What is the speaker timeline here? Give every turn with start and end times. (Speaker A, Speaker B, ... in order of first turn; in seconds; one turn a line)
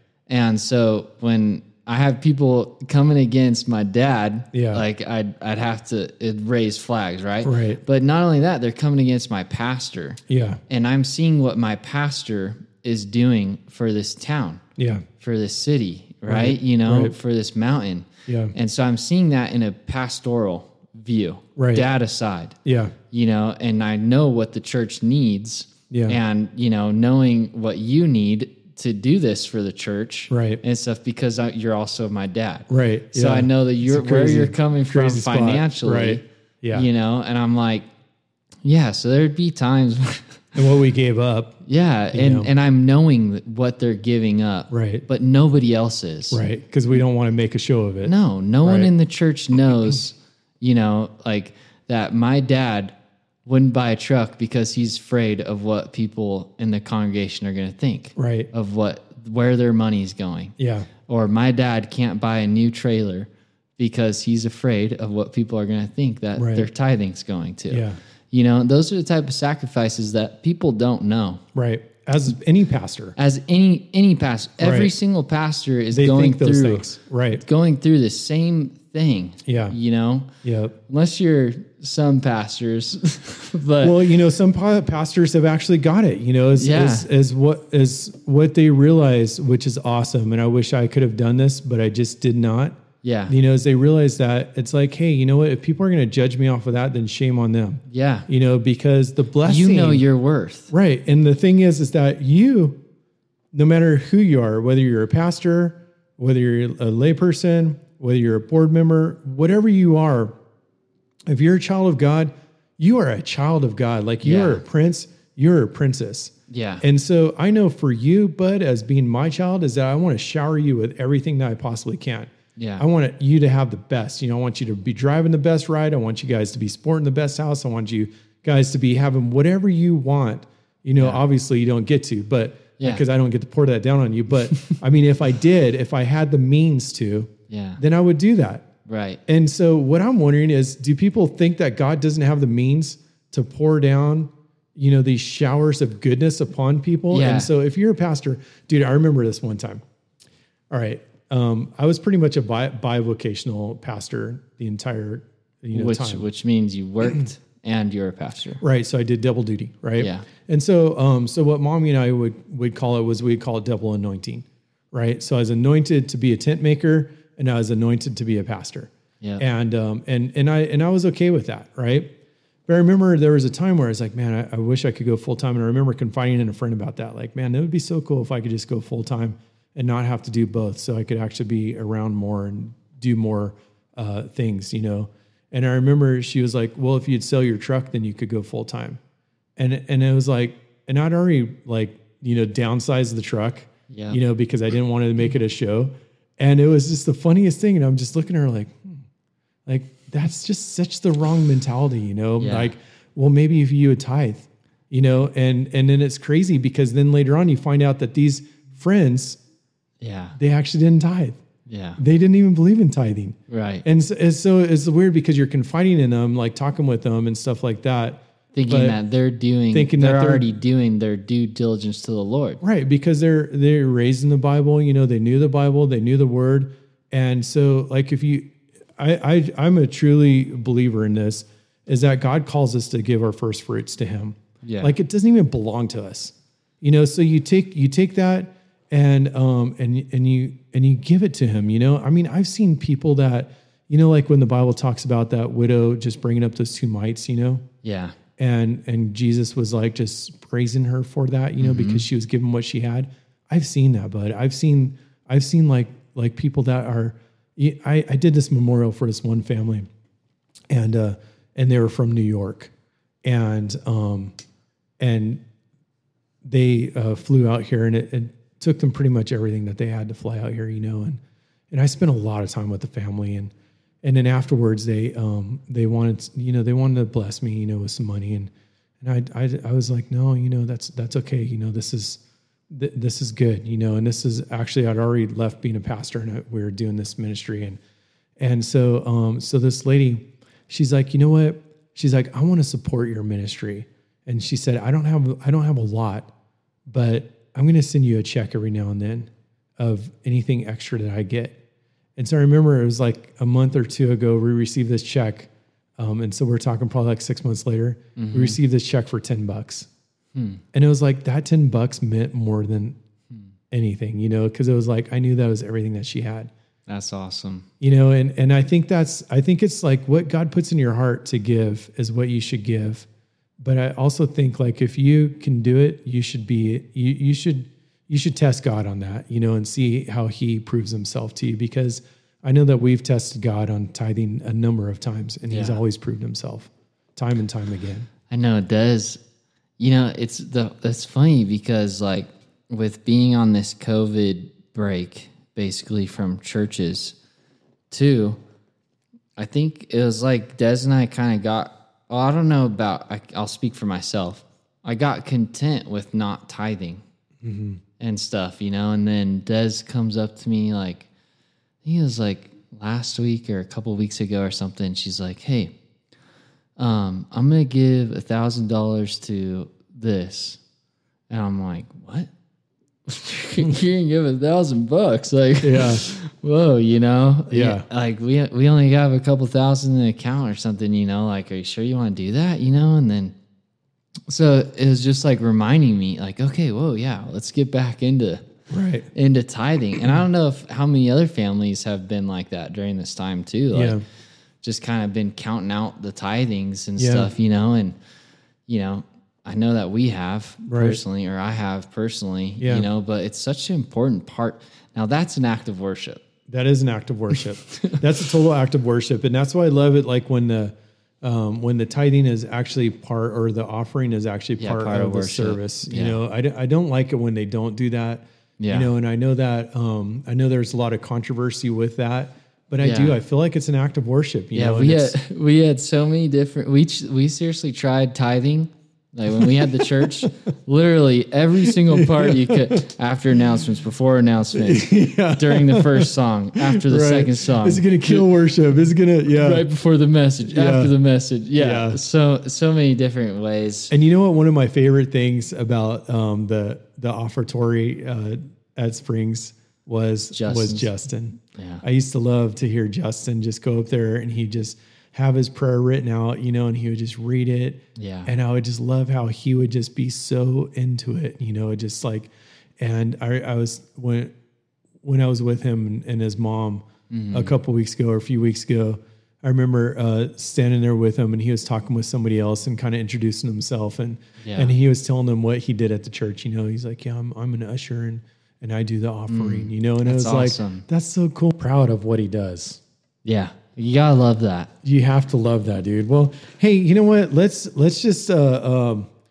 Speaker A: 0.3-14.6
Speaker B: 4.5-4.8
Speaker B: 7.4-7.8
Speaker B: 10.3-10.6
Speaker B: 14.8-15.0
Speaker A: 15.2-22.6
Speaker B: 16.3-17.1
Speaker B: 18.3-18.5
Speaker B: 21.6-21.9
Speaker B: 22.6-22.9
Speaker A: 23.1-37.9
Speaker B: 25.9-26.2
Speaker B: 30.3-30.6
Speaker B: 32.7-36.9
Speaker A: 38.6-40.5
Speaker B: 40.5-41.5
Speaker A: 41.6-46.4
Speaker B: 42.1-42.5
Speaker B: 44.7-45.0
Speaker B: 46.3-48.9
Speaker A: 48.0-52.9
Speaker A: 53.5-60.5
Speaker B: 58.1-58.5
Speaker B: 60.6-60.9
Speaker A: 61.1-71.4
Speaker B: 66.3-66.7
Speaker B: 67.7-68.0
Speaker B: 71.5-73.1
Speaker A: 73.2-76.9
Speaker B: 74.6-74.9
Speaker B: 75.9-77.4
Speaker A: 77.4-80.3
Speaker B: 79.5-79.8
Speaker B: 80.4-80.7
Speaker A: 80.9-84.0
Speaker B: 83.8-100.0
Speaker A: 86.5-87.1
Speaker A: 93.0-93.3
Speaker A: 97.9-98.3
Speaker A: 99.4-100.7
Speaker B: 100.7-102.8
Speaker B: 103.5-110.3
Speaker B: 111.3-138.7
Speaker A: 114.2-114.6
Speaker A: 116.5-116.8
Speaker A: 122.5-122.8
Speaker A: 131.0-131.2
Speaker A: 137.5-137.8
Speaker A: 138.9-139.2
Speaker B: 139.3-149.8
Speaker A: 147.1-147.5
Speaker B: 150.7-156.2
Speaker A: 155.7-158.6
Speaker B: 158.6-172.1
Speaker A: 160.0-160.2
Speaker B: 172.7-189.0
Speaker B: 189.6-199.0
Speaker A: 193.9-194.2
Speaker B: 199.7-209.4
Speaker A: 202.4-202.7
Speaker A: 210.0-210.4
Speaker B: 210.4-211.4
Speaker A: 211.7-212.0
Speaker B: 212.0-219.0
Speaker A: 213.5-213.8
Speaker A: 218.5-222.6
Speaker B: 219.7-220.4
Speaker B: 222.6-247.6
Speaker A: 234.6-234.9
Speaker A: 247.8-248.2
Speaker B: 248.4-259.9
Speaker A: 251.6-252.1
Speaker B: 260.7-262.7
Speaker B: 263.2-264.3
Speaker B: 265.0-265.4
Speaker B: 266.4-271.2
Speaker B: 271.7-273.5
Speaker B: 274.0-278.5
Speaker B: 279.0-287.8
Speaker B: 288.4-296.3
Speaker B: 296.9-301.6
Speaker B: 302.1-309.9
Speaker A: 308.1-308.6
Speaker A: 310.3-310.6
Speaker B: 310.7-312.9
Speaker B: 313.7-316.5
Speaker A: 316.9-317.7
Speaker B: 317.8-323.1
Speaker B: 323.6-338.1
Speaker A: 335.5-335.8
Speaker A: 338.3-339.2
Speaker A: 339.8-347.1
Speaker A: 347.9-348.4
Speaker A: 349.4-357.0
Speaker B: 357.4-357.8
Speaker A: 358.0-361.1
Speaker A: 361.8-365.7
Speaker A: 366.8-370.6
Speaker A: 371.3-372.3
Speaker A: 373.1-383.3
Speaker B: 375.6-376.0
Speaker B: 377.5-377.8
Speaker A: 384.3-388.5
Speaker B: 388.7-389.1
Speaker A: 389.1-394.0
Speaker B: 393.7-394.0
Speaker A: 394.6-397.9
Speaker B: 397.0-397.3
Speaker A: 398.7-406.2
Speaker B: 400.7-401.0
Speaker B: 402.6-402.9
Speaker B: 406.5-425.1
Speaker A: 407.3-408.0
Speaker A: 414.6-416.2
Speaker A: 418.6-418.9
Speaker A: 422.8-423.2
Speaker A: 424.5-438.3
Speaker B: 431.6-432.8
Speaker B: 434.5-439.7
Speaker A: 439.3-443.9
Speaker B: 440.4-440.9
Speaker B: 441.6-442.0
Speaker B: 443.9-464.3
Speaker A: 450.3-450.9
Speaker A: 451.6-451.8
Speaker A: 457.9-458.3
Speaker B: 465.0-482.8
Speaker A: 467.1-467.5
Speaker A: 474.4-474.7
Speaker A: 479.3-480.9
Speaker A: 483.2-484.7
Speaker B: 484.8-489.1